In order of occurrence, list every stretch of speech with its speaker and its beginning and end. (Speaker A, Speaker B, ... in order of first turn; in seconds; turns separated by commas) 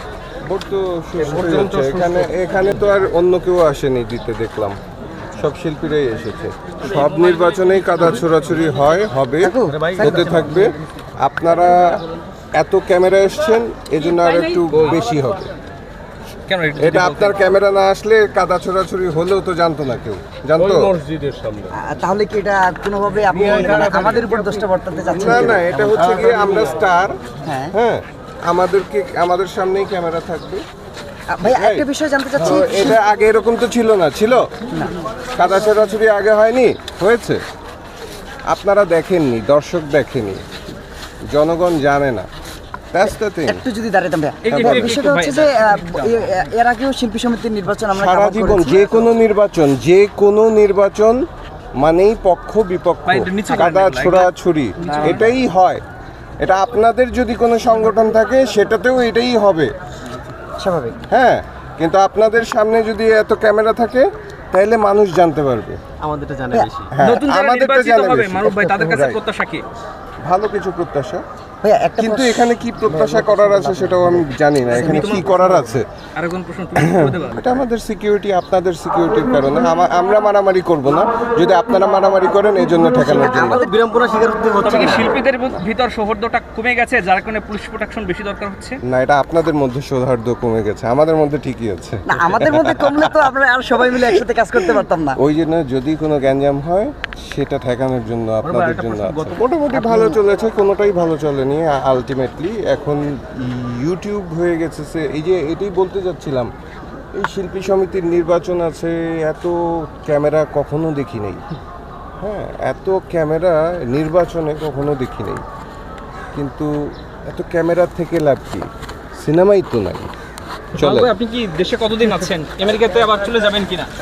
Speaker A: 0.4-4.8, Speaker B: 1.2-3.0, Speaker A: 5.4-12.0, Speaker C: 6.8-8.3, Speaker D: 9.4-10.7, Speaker B: 9.7-10.6, Speaker A: 12.6-15.5, Speaker B: 14.7-15.0, Speaker C: 16.5-17.4, Speaker A: 16.8-20.9, Speaker B: 20.6-21.7, Speaker D: 21.7-26.5, Speaker B: 23.3-24.6, Speaker A: 25.1-27.2, Speaker B: 25.2-25.5, Speaker D: 27.4-27.7, Speaker A: 27.7-30.6, Speaker D: 31.3-33.0, Speaker A: 31.4-31.8, Speaker A: 32.4-34.4, Speaker D: 34.7-35.0, Speaker A: 35.3-37.4, Speaker A: 38.5-40.4, Speaker A: 41.3-42.3, Speaker A: 42.9-43.6, Speaker D: 43.4-49.1, Speaker C: 44.4-46.5, Speaker A: 44.5-45.0, Speaker A: 47.9-51.2, Speaker A: 51.8-55.8, Speaker C: 53.1-55.3, Speaker D: 54.8-55.3, Speaker A: 56.4-59.7, Speaker D: 60.6-61.0, Speaker A: 61.1-65.8, Speaker B: 66.0-66.9, Speaker A: 66.9-69.2, Speaker C: 67.0-69.6, Speaker A: 70.2-71.2, Speaker D: 71.6-75.3, Speaker A: 72.0-75.9, Speaker C: 74.7-77.6, Speaker A: 76.8-83.6, Speaker D: 82.9-85.1, Speaker B: 83.6-84.6, Speaker C: 84.6-88.8, Speaker A: 88.8-106.5, Speaker D: 92.1-95.2, Speaker C: 98.4-99.4, Speaker D: 99.7-100.2, Speaker A: 107.1-111.4, Speaker A: 112.2-115.4, Speaker A: 116.3-118.7, Speaker A: 119.2-120.1, Speaker C: 120.7-123.9, Speaker A: 120.8-121.1